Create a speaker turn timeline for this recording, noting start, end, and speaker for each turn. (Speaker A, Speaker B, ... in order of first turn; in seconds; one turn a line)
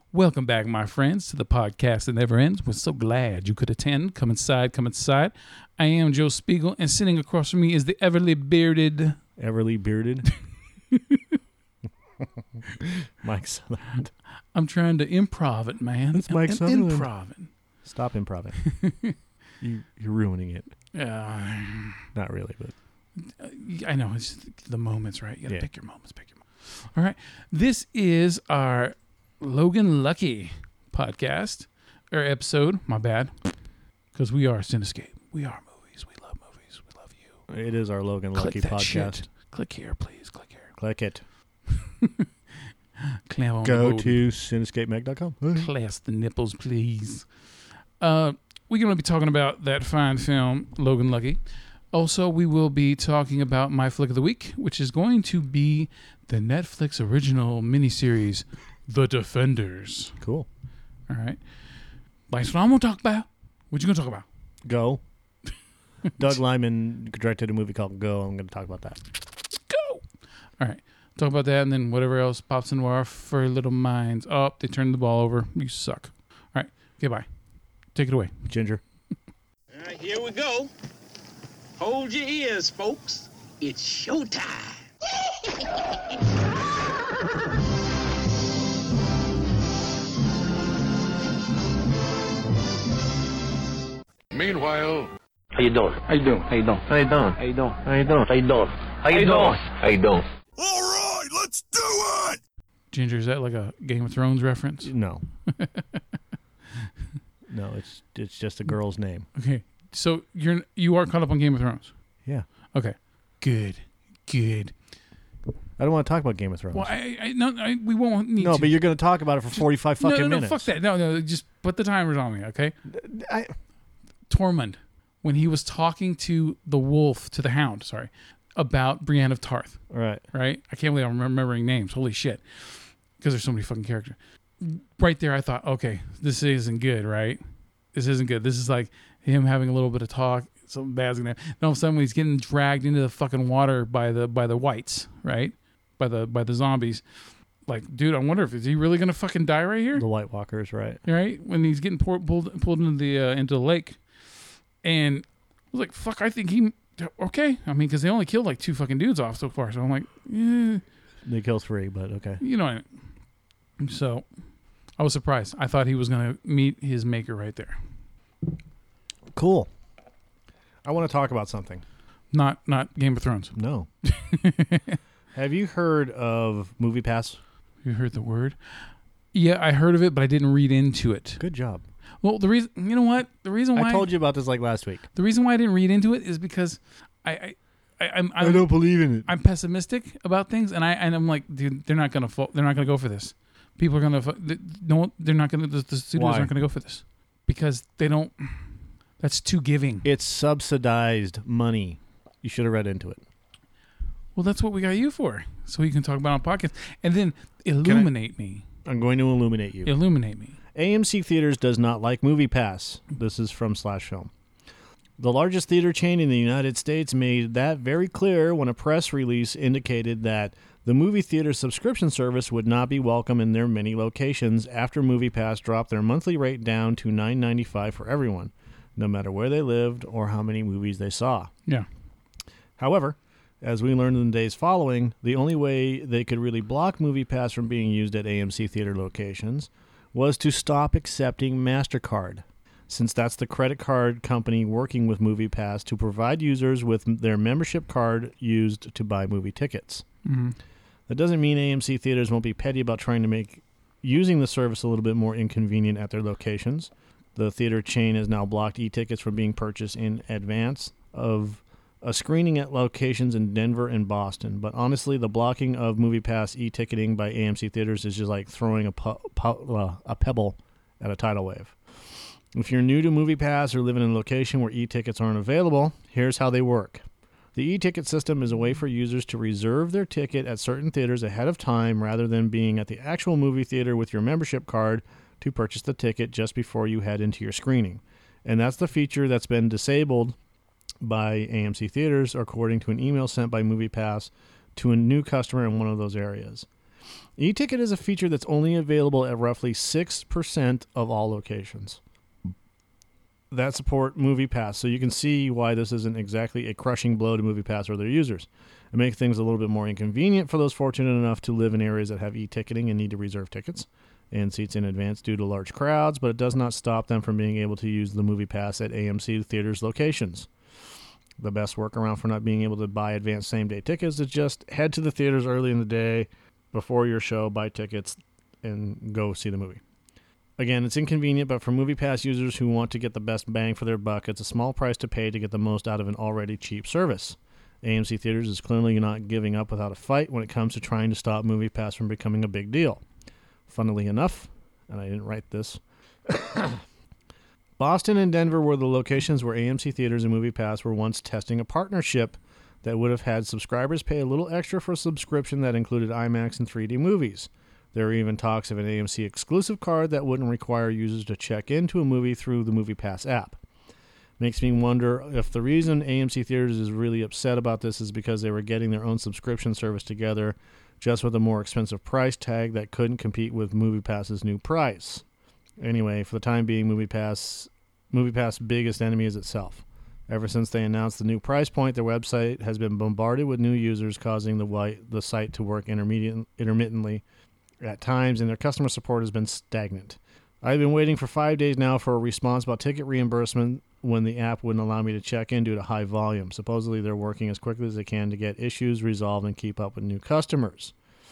Speaker A: 0.1-9.2
Speaker B: 9.4-10.3
Speaker A: 10.9-11.2
Speaker B: 12.8-14.1
Speaker A: 14.6-17.5
Speaker B: 16.1-17.1
Speaker B: 17.9-18.6
Speaker A: 18.6-19.1
Speaker B: 19.6-20.7
Speaker A: 20.9-22.1
Speaker B: 22.1-22.7
Speaker A: 23.2-33.4
Speaker A: 34.1-37.3
Speaker B: 37.5-39.2
Speaker A: 38.4-40.7
Speaker B: 40.8-41.2
Speaker A: 41.8-42.3
Speaker A: 43.1-44.2
Speaker B: 43.6-45.7
Speaker A: 45.5-47.3
Speaker A: 48.0-51.4
Speaker A: 51.9-60.2
Speaker B: 60.2-60.5
Speaker A: 61.1-61.4
Speaker A: 62.3-64.3
Speaker B: 64.7-65.0
Speaker B: 66.2-69.0
Speaker A: 69.5-70.0
Speaker A: 70.6-77.3
Speaker A: 77.9-78.3
Speaker B: 78.5-78.8
Speaker C: 79.7-80.7
Speaker C: 81.8-84.8
Speaker D: 94.3-95.1
Speaker E: 95.5-100.3
Speaker D: 96.1-96.5
Speaker D: 100.6-102.4
Speaker A: 102.9-104.9
Speaker B: 104.8-105.2
Speaker A: 105.5-106.0
Speaker B: 107.5-109.3
Speaker A: 109.4-111.9
Speaker A: 112.7-114.7
Speaker B: 115.8-116.9
Speaker A: 116.7-118.8
Speaker B: 118.4-120.7
Speaker A: 119.6-122.8
Speaker B: 122.9-123.5
Speaker A: 124.3-129.8
Speaker B: 129.9-130.2
Speaker A: 130.3-137.4
Speaker A: 137.9-147.0
Speaker A: 147.7-150.1
Speaker B: 149.9-151.0
Speaker A: 151.1-154.0
Speaker A: 154.8-160.8
Speaker B: 161.2-162.4
Speaker A: 162.4-162.8
Speaker A: 163.8-164.2
Speaker A: 165.0-167.8
Speaker B: 169.3-169.7
Speaker B: 170.8-171.8
Speaker A: 172.3-175.0
Speaker B: 173.6-173.9
Speaker B: 175.3-177.4
Speaker A: 177.8-181.4
Speaker B: 181.4-181.8
Speaker A: 182.2-184.1
Speaker B: 183.8-185.0
Speaker A: 185.1-188.7
Speaker B: 188.4-189.3
Speaker A: 189.2-198.6
Speaker B: 196.2-196.5
Speaker A: 199.2-200.1
Speaker B: 200.0-203.2
Speaker A: 204.3-208.7
Speaker B: 207.8-208.1
Speaker B: 208.8-209.9
Speaker A: 209.8-210.6
Speaker B: 210.8-214.3
Speaker B: 215.2-231.5
Speaker B: 232.8-250.1
Speaker A: 250.2-250.6
Speaker B: 251.1-271.8
Speaker B: 272.5-290.4
Speaker B: 291.0-296.7
Speaker B: 297.4-302.0
Speaker B: 303.5-320.5
Speaker B: 321.4-329.8
Speaker B: 330.6-343.0
Speaker B: 343.7-346.8
Speaker B: 347.8-363.6
Speaker B: 364.4-375.2
Speaker B: 375.8-387.2
Speaker B: 387.8-400.9